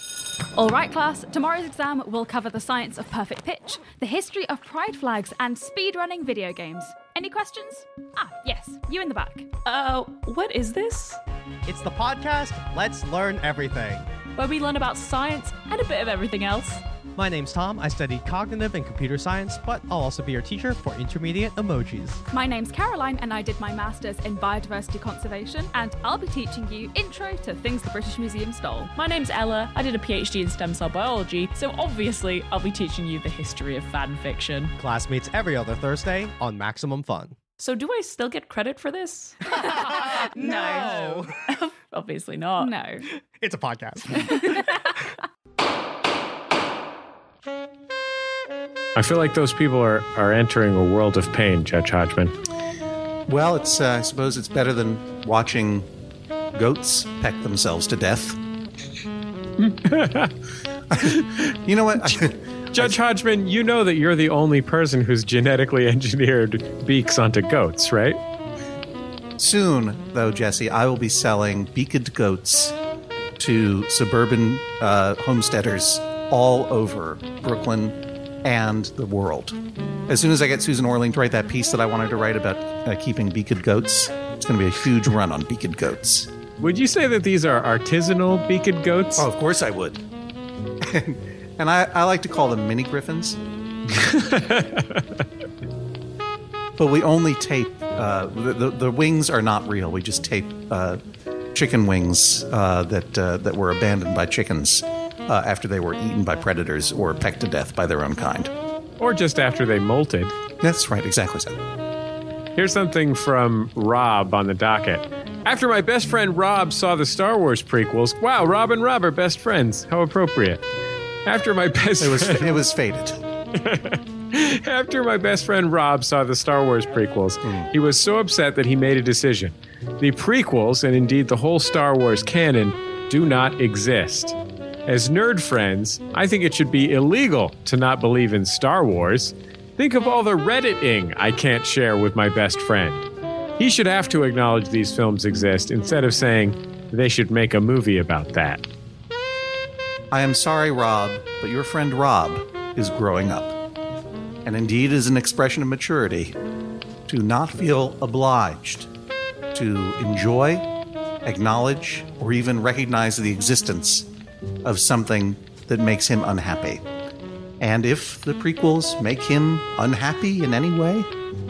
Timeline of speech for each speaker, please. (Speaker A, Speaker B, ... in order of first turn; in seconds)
Speaker A: 0.5-9.5, 22.3-28.9, 39.8-41.2, 42.6-43.1
Speaker B: 9.6-11.2, 14.4-16.8, 28.9-34.7, 37.6-43.0
Speaker C: 11.7-14.1, 17.2-22.2, 34.8-37.4, 39.7-41.3, 43.3-44.4
Speaker D: 49.0-52.3, 59.6-60.3, 61.0-61.4, 62.7-68.2, 86.6-89.3, 93.9-95.2, 109.0-110.3, 112.6-120.6, 121.3-122.5, 123.5-134.4, 134.9-143.1, 143.6-148.6
Speaker E: 53.3-55.9, 56.5-58.4, 60.9-63.0, 69.4-72.8, 73.4-79.6, 80.1-86.3, 89.2-90.0, 90.8-93.4, 96.8-101.0, 101.5-108.5, 110.6-111.6, 122.0-123.2, 127.4-127.7, 150.1-153.6, 154.4-156.4, 157.1-158.9, 159.5-160.7, 161.2-164.1, 164.6-166.8, 167.6-171.1